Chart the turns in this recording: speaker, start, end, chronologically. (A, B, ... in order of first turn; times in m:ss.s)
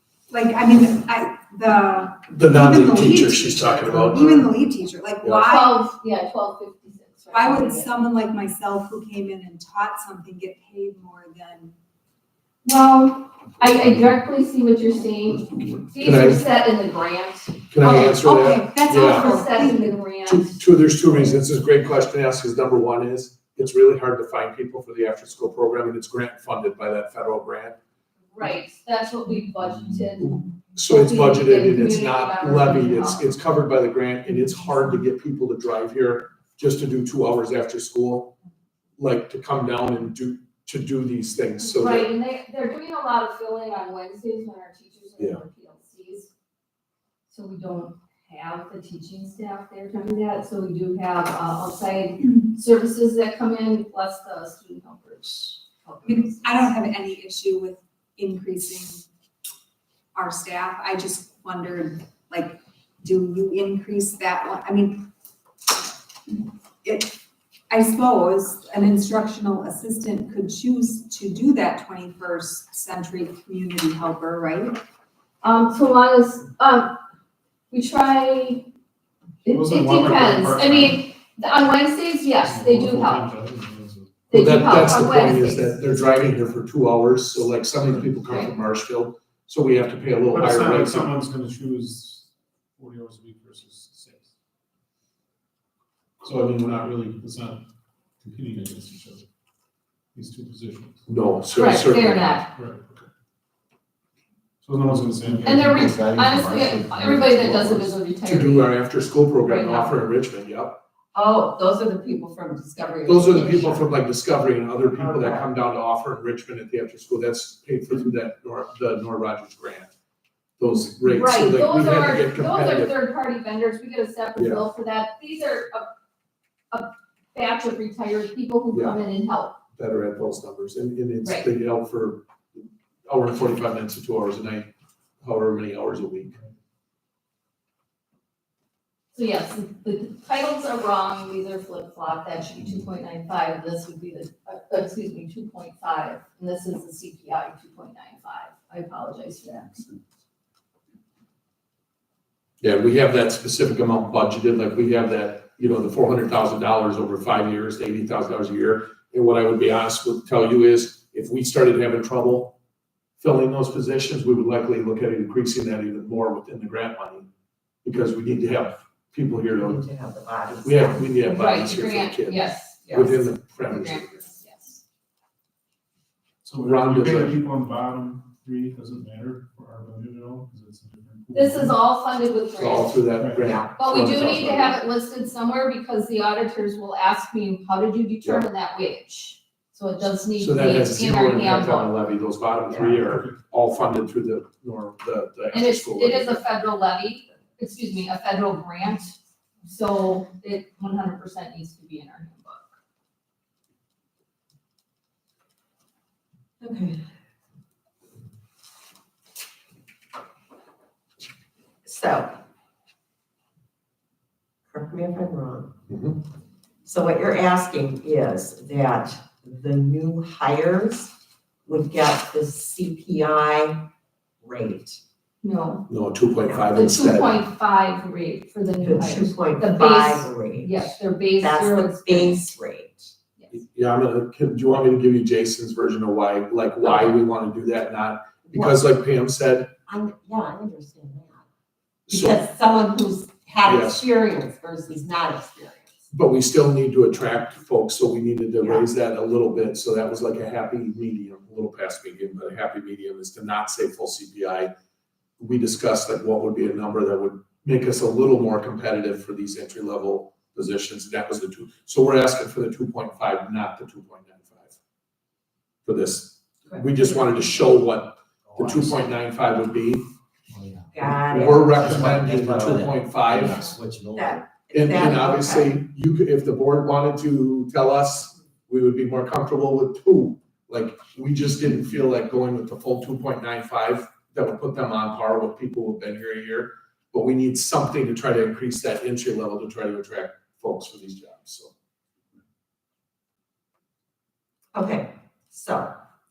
0:00.3-0:05.8 A
0:02.3-0:04.6 B
0:05.4-0:08.0 C
0:07.3-0:11.8 A
0:12.6-0:18.2 C
0:15.6-0:16.4 B
0:17.7-0:19.3 B
0:17.8-0:20.0 A
0:18.8-0:20.6 C
0:20.3-0:27.8 B
0:28.3-0:33.3 C
0:30.2-0:38.4 B
0:39.0-0:42.1 B
0:41.7-0:46.3 C
0:47.3-0:56.5 C
0:56.0-0:59.1 A
1:00.2-1:05.1 A
1:06.3-1:07.2 A
1:07.7-1:14.8 A
1:15.4-1:17.0 C
1:17.7-1:18.7 C
1:19.4-1:23.2 C
1:19.5-1:21.0 D
1:22.4-1:25.1 D
1:24.3-1:26.0 C
1:24.3-1:31.1 B
1:28.3-1:28.5 C
1:30.3-1:34.3 D
1:36.2-1:37.6 D
1:38.2-1:39.2 D
1:40.1-1:41.0 D
1:41.1-1:42.4 B
1:41.5-1:42.5 C
1:42.5-1:43.0 D
1:44.6-1:46.2 D
1:44.9-1:48.0 E
1:45.4-1:48.7 C
1:48.2-1:50.8 B
1:49.4-1:50.0 C
1:51.1-1:53.9 F
1:53.1-1:59.9 B
1:55.0-1:55.5 F
2:00.6-2:02.9 B
2:01.0-2:05.9 C
2:04.4-2:04.6 B
2:06.7-2:09.6 C
2:08.7-2:09.0 B
2:09.8-2:14.7 B
2:15.2-2:16.4 B
2:19.1-2:30.0 C
2:32.6-2:42.6 B
2:43.2-2:47.3 B
2:47.8-2:49.8 B
2:49.5-2:51.8 F
2:50.5-2:54.3 B
2:51.2-2:54.8 C
2:52.9-2:53.1 F
2:56.4-3:01.8 D
2:56.6-2:57.4 B
3:01.3-3:03.0 C
3:02.6-3:04.8 B
3:03.2-3:03.6 D
3:03.8-3:12.0 C
3:10.4-3:16.4 B
3:12.7-3:13.3 D
3:15.5-3:22.7 C
3:26.6-3:27.0 F
3:31.8-3:32.4 F
3:34.7-3:35.8 F
3:35.9-3:36.2 B
3:36.8-3:41.1 F
3:41.6-3:43.9 F
3:44.4-3:45.0 F
3:45.4-3:45.9 C
3:45.9-3:47.4 B
3:46.7-3:52.4 C
3:48.8-3:53.1 F
3:53.5-3:59.7 B
3:56.8-3:57.2 F
3:58.5-3:58.8 F
3:59.9-4:01.5 F
4:02.1-4:02.4 B
4:02.1-4:06.0 F
4:03.6-4:04.0 B
4:06.1-4:14.7 B
4:08.6-4:08.9 F
4:15.4-4:24.8 B
4:25.8-4:30.1 B
4:26.7-4:27.8 F
4:28.5-4:29.0 E
4:30.5-4:34.4 E
4:30.9-4:32.2 F
4:31.3-4:33.8 B
4:34.2-4:35.8 F
4:34.7-4:51.7 B
4:54.7-4:56.0 F